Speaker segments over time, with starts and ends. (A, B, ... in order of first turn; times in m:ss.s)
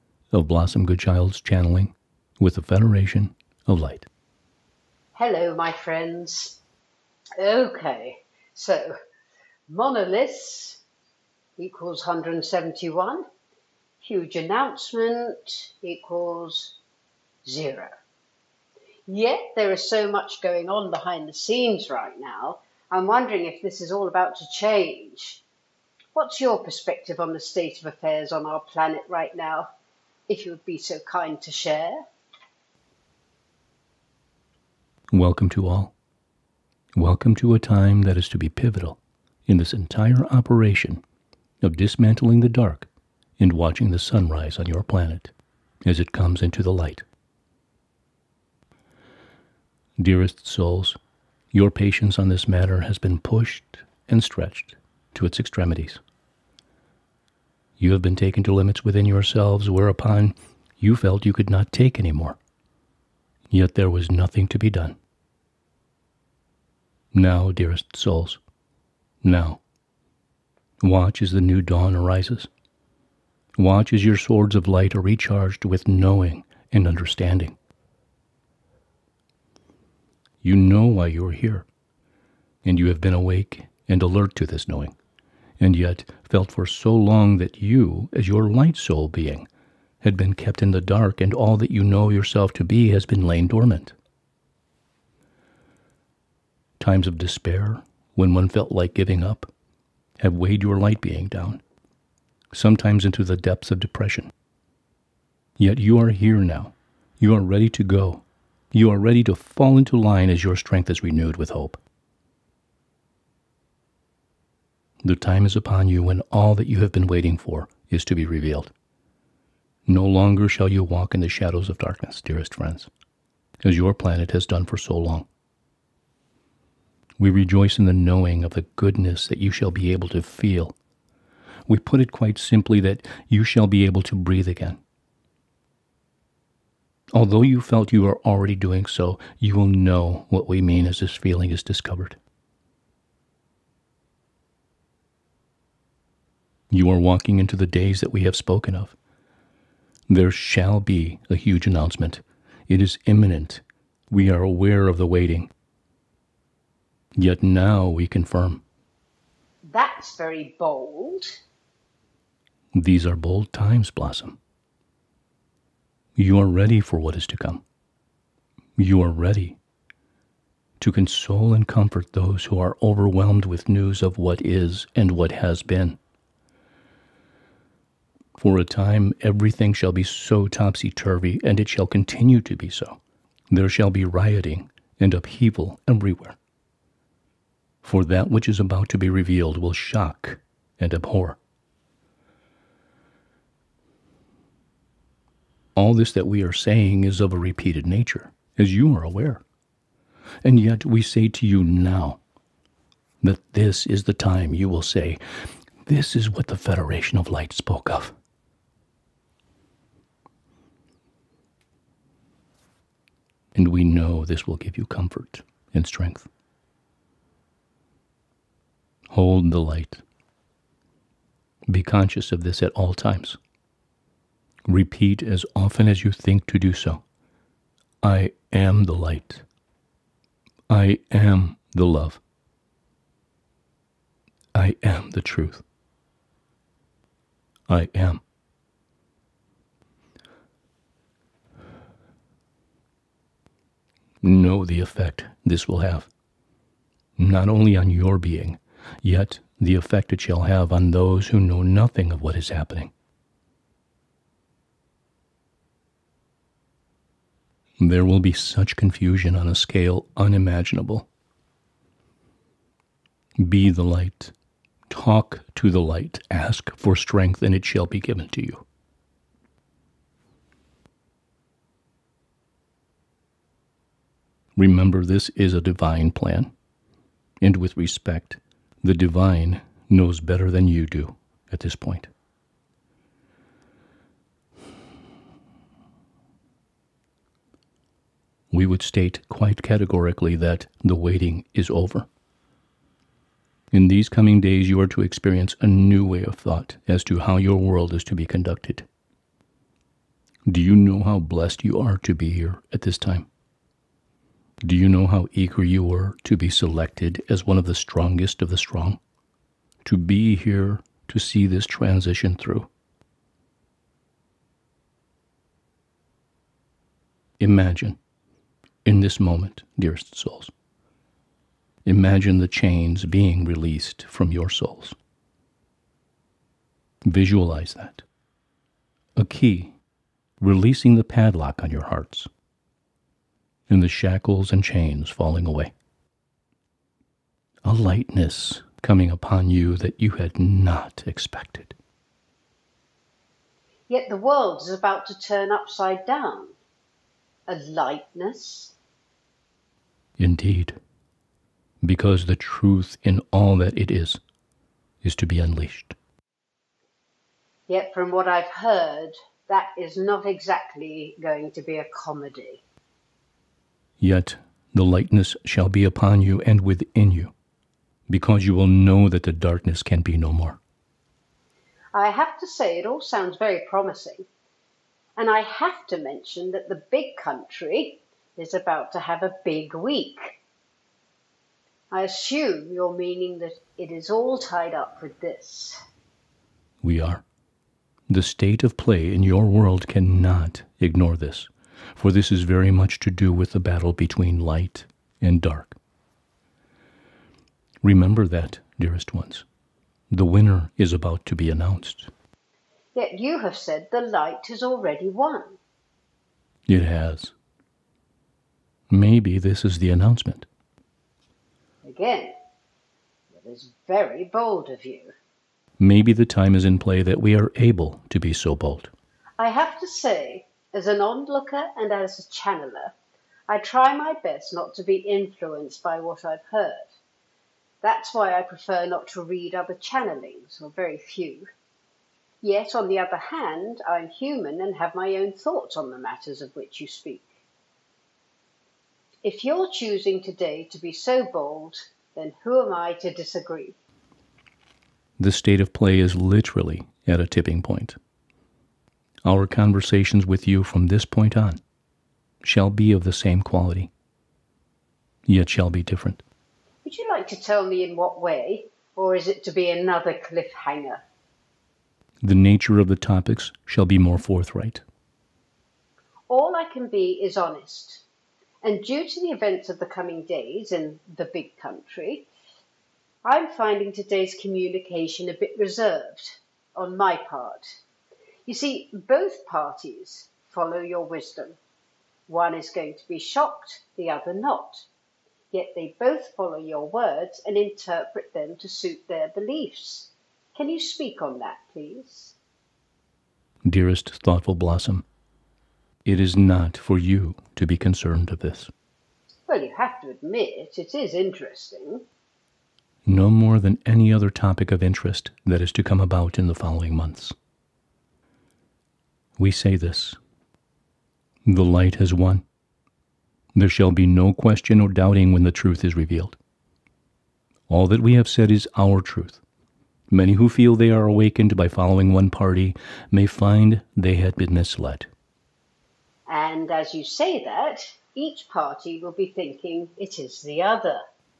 0:00.3-0:04.1 A
0:05.2-0:06.6 B
0:07.4-0:08.9 B
0:09.7-0:10.8 B
0:11.6-0:13.2 B
0:14.0-0:16.8 B
0:17.4-0:17.9 B
0:19.1-0:25.4 B
0:26.1-0:29.7 B
0:30.3-0:32.0 B
0:35.1-0:35.9 A
0:37.0-0:41.0 A
0:41.6-0:45.3 A
0:45.8-0:47.0 A
0:50.0-0:51.0 A
0:51.5-0:56.0 A
0:57.8-1:02.4 A
1:03.5-1:05.0 A
1:07.1-1:08.4 A
1:09.2-1:09.6 A
1:10.8-1:12.5 A
1:13.6-1:17.6 A
1:20.4-1:21.7 A
1:22.6-1:25.0 A
1:25.6-1:29.5 A
1:30.0-1:33.9 A
1:36.8-1:39.5 A
1:40.2-1:41.6 A
1:42.5-1:44.3 A
1:45.6-1:51.8 A
1:55.0-1:58.7 A
1:59.9-2:02.9 A
2:03.6-2:05.3 A
2:07.2-2:10.7 A
2:11.7-2:14.8 A
2:17.1-2:22.2 A
2:26.7-2:29.0 A
2:30.1-2:35.5 A
2:37.2-2:38.6 A
2:39.7-2:41.3 B
2:42.7-2:44.4 A
2:46.2-2:47.6 A
2:48.8-2:49.6 A
2:50.8-2:56.0 A
2:58.4-3:03.0 A
3:03.5-3:06.4 A
3:07.8-3:11.4 A
3:15.8-3:19.4 A
3:20.4-3:22.2 A
3:23.2-3:25.2 A
3:25.8-3:28.1 A
3:33.5-3:36.3 A
3:39.1-3:40.0 A
3:41.7-3:43.4 A
3:44.7-3:47.0 A
3:48.0-3:49.4 A
3:50.7-3:52.2 A
3:54.5-3:55.6 A
3:57.7-3:58.2 A
4:04.2-4:06.1 A
4:07.2-4:12.9 A
4:17.8-4:21.1 A
4:23.4-4:24.3 A
4:24.9-4:28.6 A
4:34.6-4:36.5 A
4:37.4-4:42.1 A
4:48.5-4:52.1 A
4:53.7-4:58.9 A
5:00.5-5:03.3 A
5:04.6-5:09.0 A
5:09.8-5:12.7 A
5:17.4-5:18.0 A
5:18.8-5:20.5 A
5:21.8-5:25.0 A
5:27.0-5:28.0 A
5:29.2-5:29.8 A
5:30.4-5:32.3 A
5:33.7-5:35.7 A
5:37.6-5:41.8 A
5:43.9-5:46.6 B
5:47.5-5:48.7 B
5:50.2-5:50.8 A
5:51.8-5:54.2 A
5:55.0-5:56.0 A
5:57.7-6:02.6 B
6:04.0-6:07.3 A
6:08.1-6:10.6 A
6:11.9-6:14.3 B
6:15.2-6:20.4 B
6:21.9-6:25.8 B
6:26.8-6:27.2 A
6:28.1-6:35.8 A
6:37.8-6:39.4 A
6:40.1-6:42.1 A
6:42.9-6:45.6 B
6:46.7-6:47.3 A
6:48.9-6:50.5 A
6:51.8-6:52.3 B
6:53.3-6:55.1 B
6:55.8-6:58.9 A
6:59.4-7:02.9 B
7:03.5-7:06.9 B
7:07.8-7:11.5 B
7:12.4-7:17.3 B
7:19.2-7:23.8 B
7:25.2-7:28.0 A
7:29.2-7:31.6 A
7:32.4-7:33.9 A
7:35.3-7:36.2 A
7:36.8-7:41.0 B
7:42.2-7:44.8 A
7:46.3-7:48.0 B
7:48.6-7:52.3 B
7:53.2-7:57.7 B
7:58.4-8:01.6 B
8:02.3-8:04.9 B
8:05.5-8:12.4 B
8:13.6-8:15.0 A
8:16.0-8:18.7 A
8:19.5-8:22.0 B
8:23.0-8:27.3 A
8:29.4-8:30.2 A
8:31.4-8:32.4 A
8:33.5-8:36.4 A
8:37.7-8:39.4 A
8:40.1-8:45.1 A
8:46.3-8:51.0 B